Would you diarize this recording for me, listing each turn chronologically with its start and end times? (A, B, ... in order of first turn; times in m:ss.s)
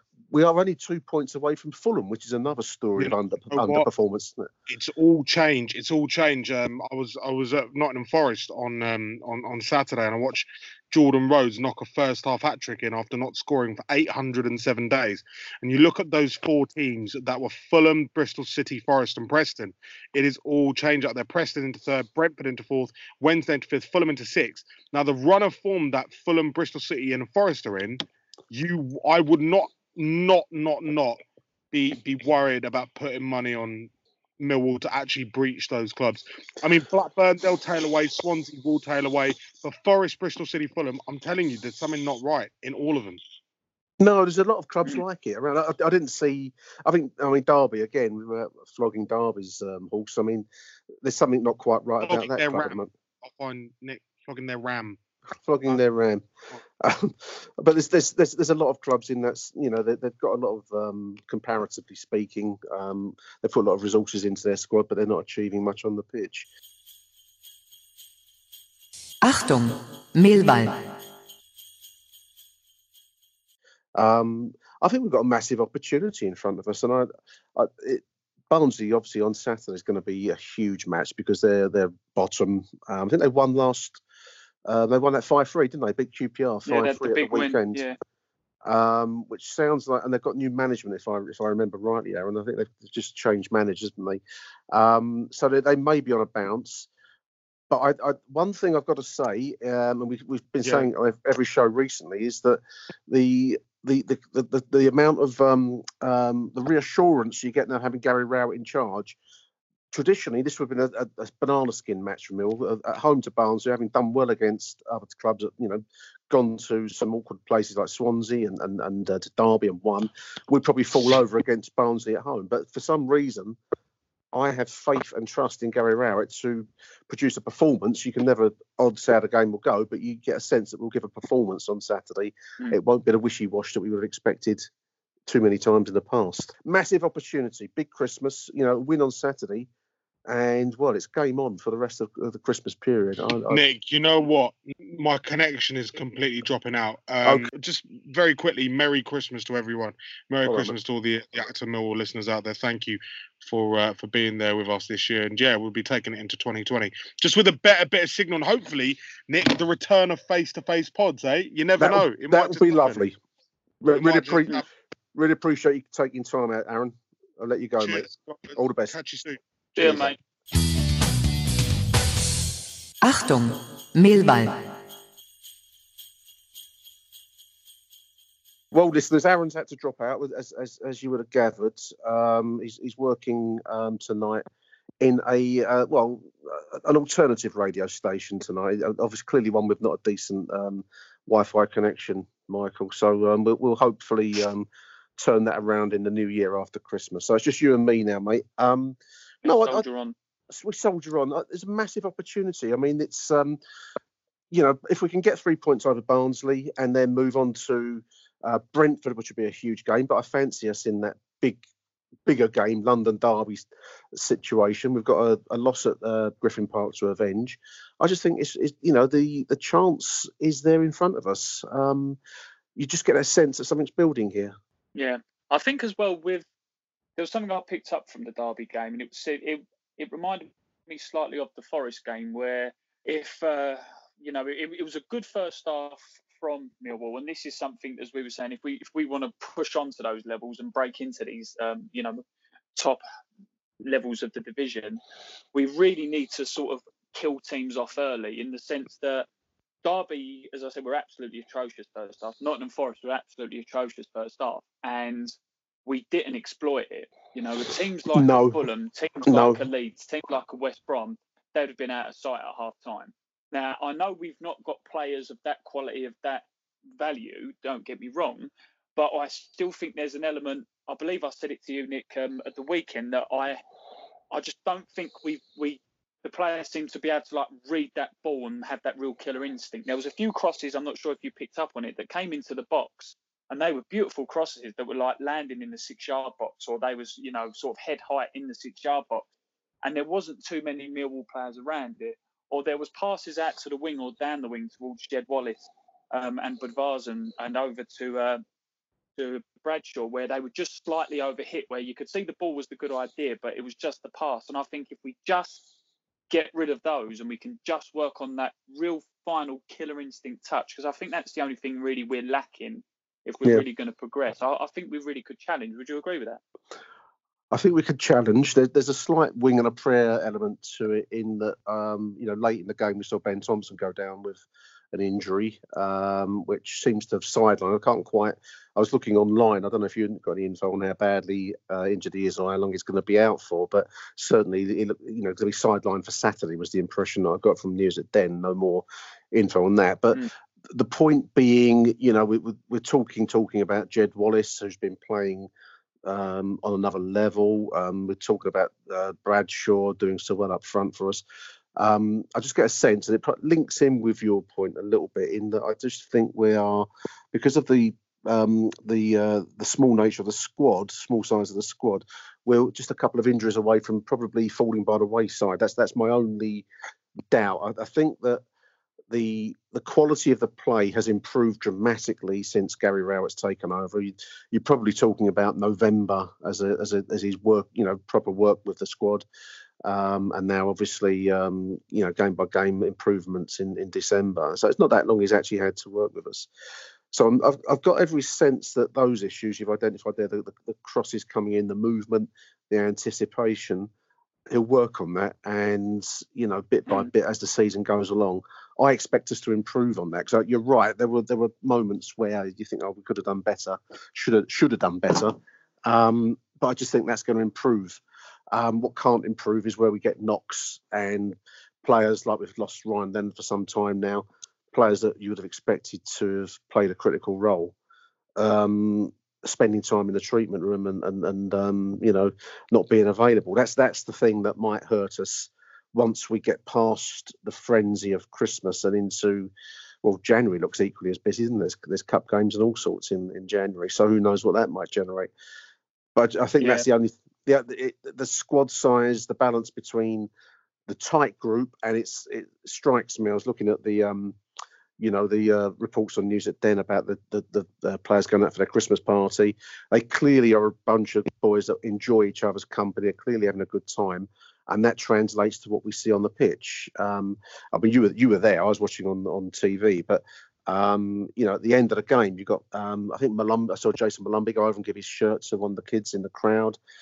0:00.3-0:04.5 A
0:03.0-0:03.9 B
0:04.7-0:31.2 B
0:31.7-0:43.2 B
0:44.0-0:50.5 A
0:51.0-0:52.9 A
0:52.0-0:55.0 B
0:55.4-0:56.3 A
0:56.8-1:06.5 A
1:09.2-1:10.9 C
1:14.0-1:24.0 A
1:24.7-1:27.8 A
1:26.7-1:28.0 D
1:28.6-1:36.9 A
1:37.7-1:49.2 A
1:49.9-2:03.6 A
2:04.3-2:14.7 A
2:15.3-2:19.7 A
2:20.3-2:23.6 A
2:23.5-2:43.0 B
2:30.4-2:30.8 A
2:41.8-2:43.2 A
2:43.8-2:44.6 A
2:43.9-2:44.6 B
2:45.1-2:49.0 A
2:47.8-2:49.4 B
2:49.8-2:50.1 A
2:49.8-2:50.2 D
2:53.0-2:54.7 C
2:58.7-3:04.4 A
3:05.0-3:19.8 A
3:19.4-3:20.2 D
3:20.5-3:23.6 A
3:24.5-3:31.6 A
3:32.2-3:42.2 A
3:42.8-3:44.6 A
3:45.0-3:46.5 D
3:47.2-4:02.2 D
4:02.8-4:03.0 D
4:03.8-4:05.0 D
4:05.5-4:09.3 D
4:09.8-4:26.4 D
4:18.1-4:18.6 A
4:19.3-4:19.6 A
4:27.0-4:33.6 D
4:34.3-4:49.2 D
4:49.8-4:58.4 D
4:59.2-5:05.6 D
5:06.3-5:16.4 D
5:17.5-5:45.5 A
5:46.0-5:51.2 A
5:51.8-6:06.7 A
6:07.3-6:08.4 A
6:09.1-6:19.3 A
6:19.8-6:26.5 A
6:27.1-6:33.9 A
6:34.5-6:45.4 A
6:45.9-6:57.8 A
6:58.4-7:15.3 A
7:16.2-7:20.3 A
7:16.6-7:16.9 D
7:20.9-7:24.4 A
7:25.0-7:46.8 A